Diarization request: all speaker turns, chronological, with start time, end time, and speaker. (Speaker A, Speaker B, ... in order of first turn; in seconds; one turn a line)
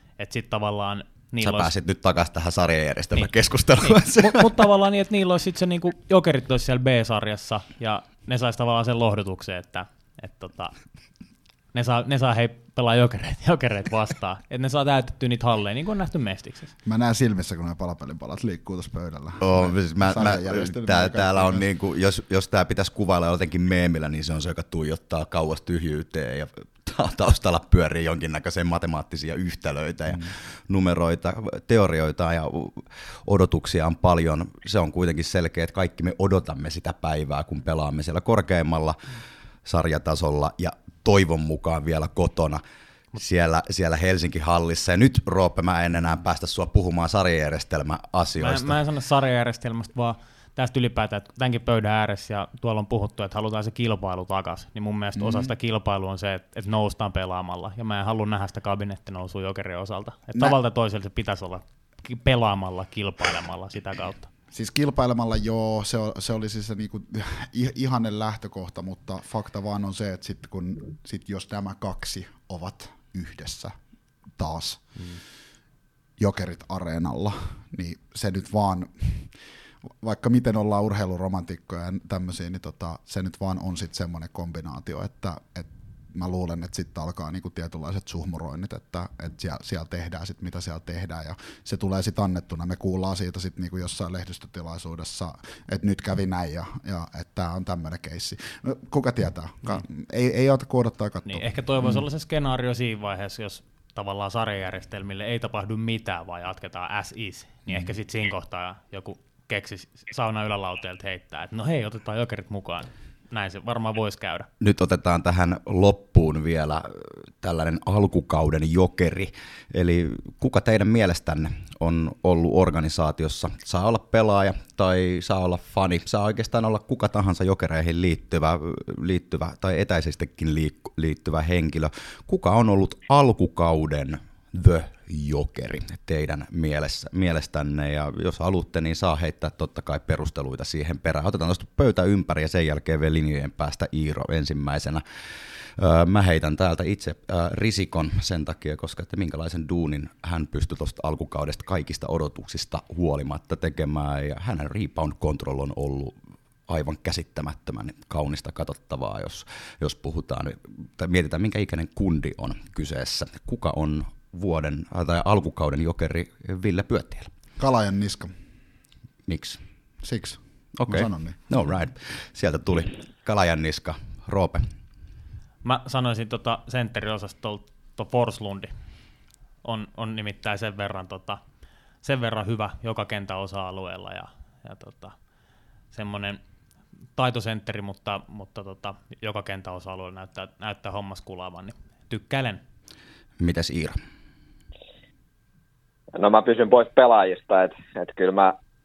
Speaker A: 0.2-1.7
Speaker B: 1.4-4.5
Speaker A: 3.8-10.7
Speaker A: 11.7-16.7
Speaker C: 16.9-21.6
Speaker B: 19.4-39.0
Speaker B: 39.6-42.6
Speaker B: 43.2-48.8
Speaker A: 48.4-64.3
Speaker C: 55.2-55.5
Speaker C: 64.5-73.7
Speaker C: 74.4-75.0
Speaker C: 76.2-79.4
Speaker C: 80.0-102.0
Speaker A: 101.3-114.5
Speaker B: 114.6-145.0
Speaker B: 145.6-156.2
Speaker B: 156.7-167.3
Speaker C: 167.6-168.3
Speaker B: 169.3-169.6
Speaker C: 170.0-171.4
Speaker B: 170.8-174.7
Speaker A: 175.6-178.7
Speaker A: 179.6-181.4
Speaker A: 182.0-185.2
Speaker A: 185.9-186.4
Speaker A: 187.2-192.6
Speaker B: 193.4-194.0
Speaker D: 196.2-198.6